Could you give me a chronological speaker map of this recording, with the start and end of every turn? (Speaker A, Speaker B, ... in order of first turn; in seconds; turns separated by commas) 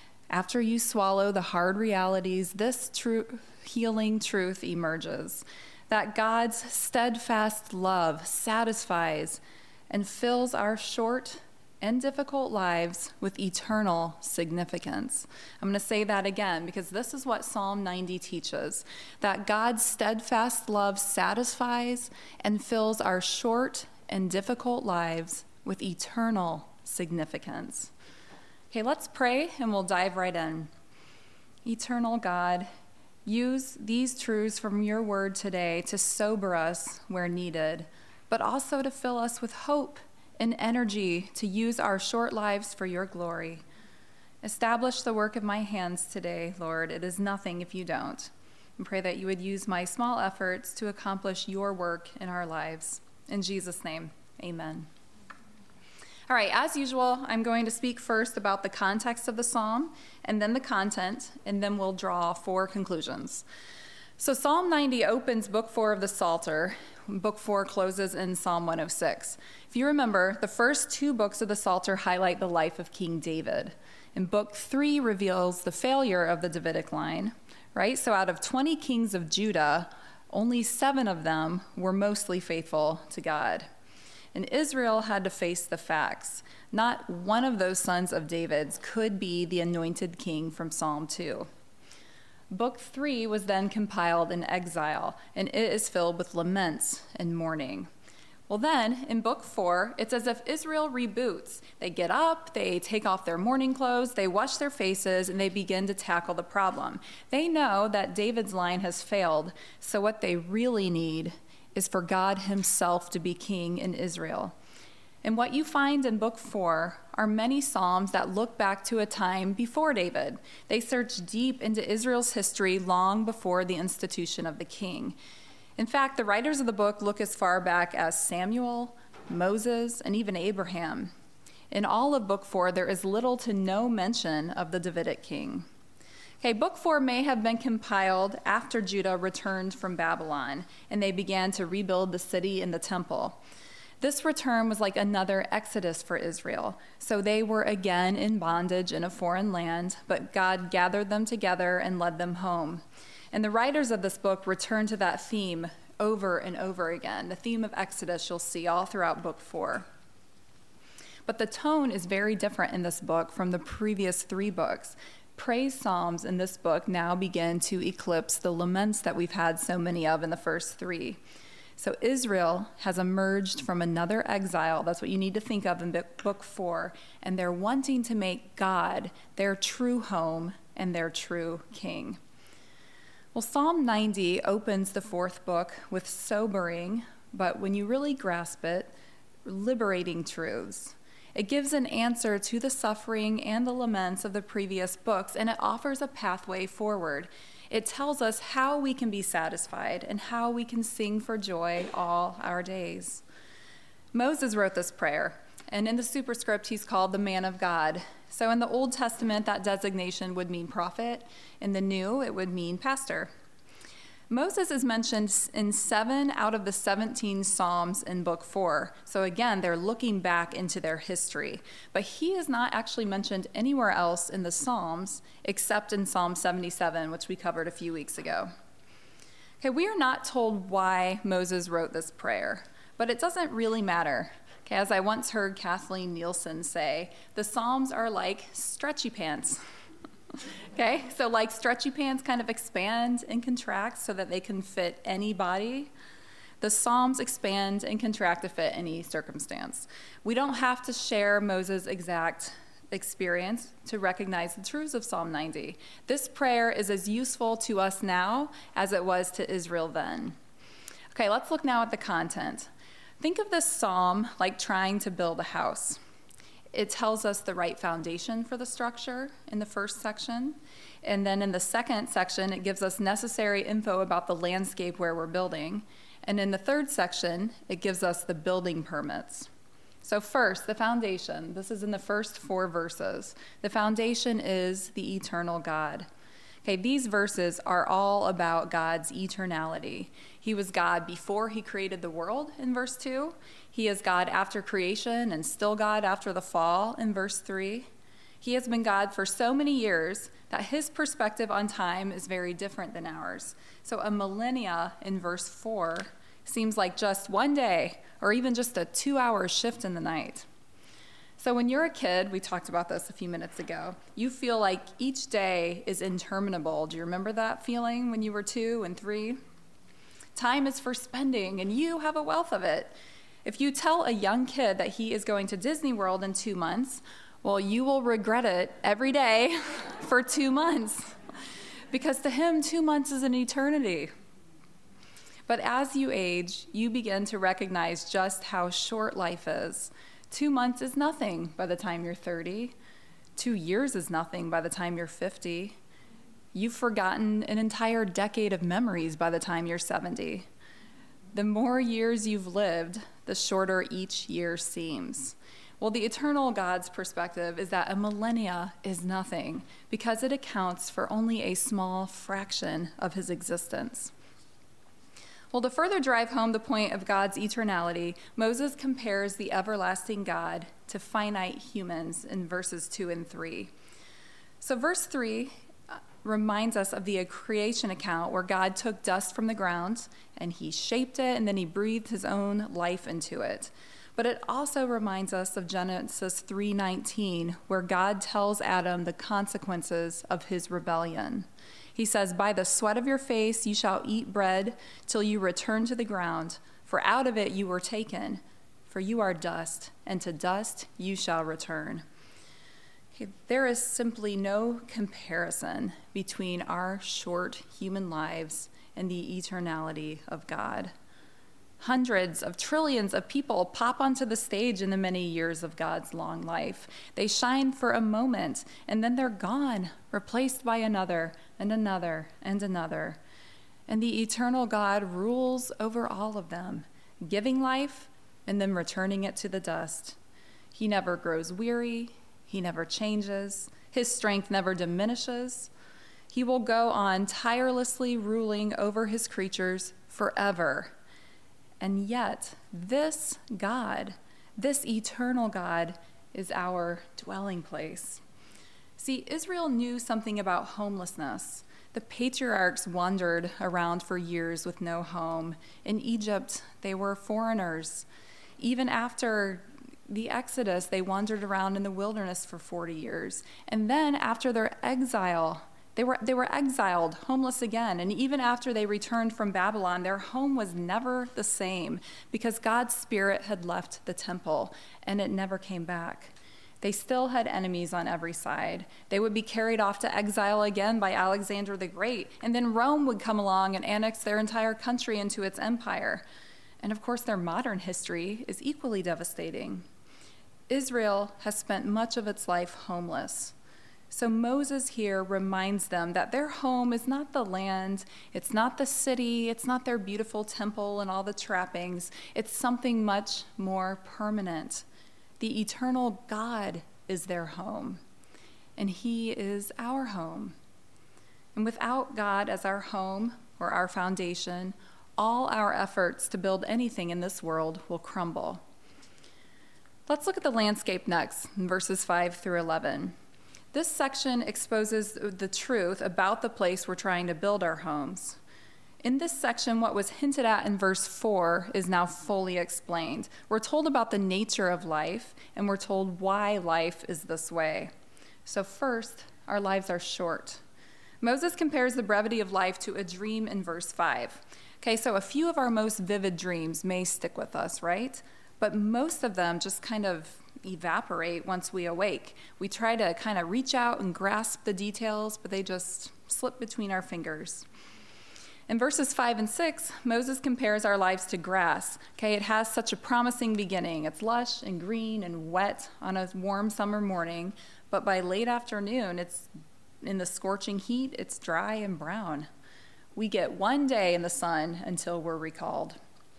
Speaker A: 0.3-27.9, Speaker A: 28.7-30.7, Speaker A: 31.6-32.7, Speaker A: 33.2-43.6, Speaker A: 44.4-54.9, Speaker A: 56.3-63.4, Speaker A: 64.2-83.7, Speaker A: 84.3-91.5, Speaker A: 92.5-97.9, Speaker A: 98.5-114.5, Speaker A: 115.2-125.2, Speaker A: 125.8-131.1, Speaker A: 131.7-135.6, Speaker A: 136.4-143.4, Speaker A: 144.0-159.8, Speaker A: 161.2-171.2, Speaker A: 171.8-182.2, Speaker A: 183.3-188.9, Speaker A: 189.4-203.2, Speaker A: 204.1-213.3, Speaker A: 214.3-228.5, Speaker A: 229.6-239.6, Speaker A: 240.8-245.9, Speaker A: 246.6-260.4, Speaker A: 261.1-262.7, Speaker A: 263.2-266.0, Speaker A: 266.7-279.5, Speaker A: 280.0-286.1, Speaker A: 286.6-297.9, Speaker A: 298.4-310.4, Speaker A: 311.4-319.4, Speaker A: 320.4-322.9, Speaker A: 323.4-331.1, Speaker A: 331.9-334.1, Speaker A: 335.5-342.7, Speaker A: 343.4-345.8, Speaker A: 346.5-350.4, Speaker A: 351.3-364.1, Speaker A: 365.5-373.7, Speaker A: 374.6-402.0, Speaker A: 403.1-410.9, Speaker A: 411.8-423.2, Speaker A: 423.9-430.2, Speaker A: 430.7-435.7, Speaker A: 436.3-440.9, Speaker A: 441.8-448.2, Speaker A: 449.0-458.1, Speaker A: 458.6-486.2, Speaker A: 486.8-489.8, Speaker A: 490.7-493.5, Speaker A: 494.1-504.8, Speaker A: 505.4-508.0, Speaker A: 508.8-510.5, Speaker A: 511.5-518.6, Speaker A: 520.1-523.1, Speaker A: 523.7-528.4, Speaker A: 529.0-537.9, Speaker A: 538.5-540.6, Speaker A: 541.2-557.6, Speaker A: 558.7-569.5, Speaker A: 570.0-572.5, Speaker A: 573.1-576.0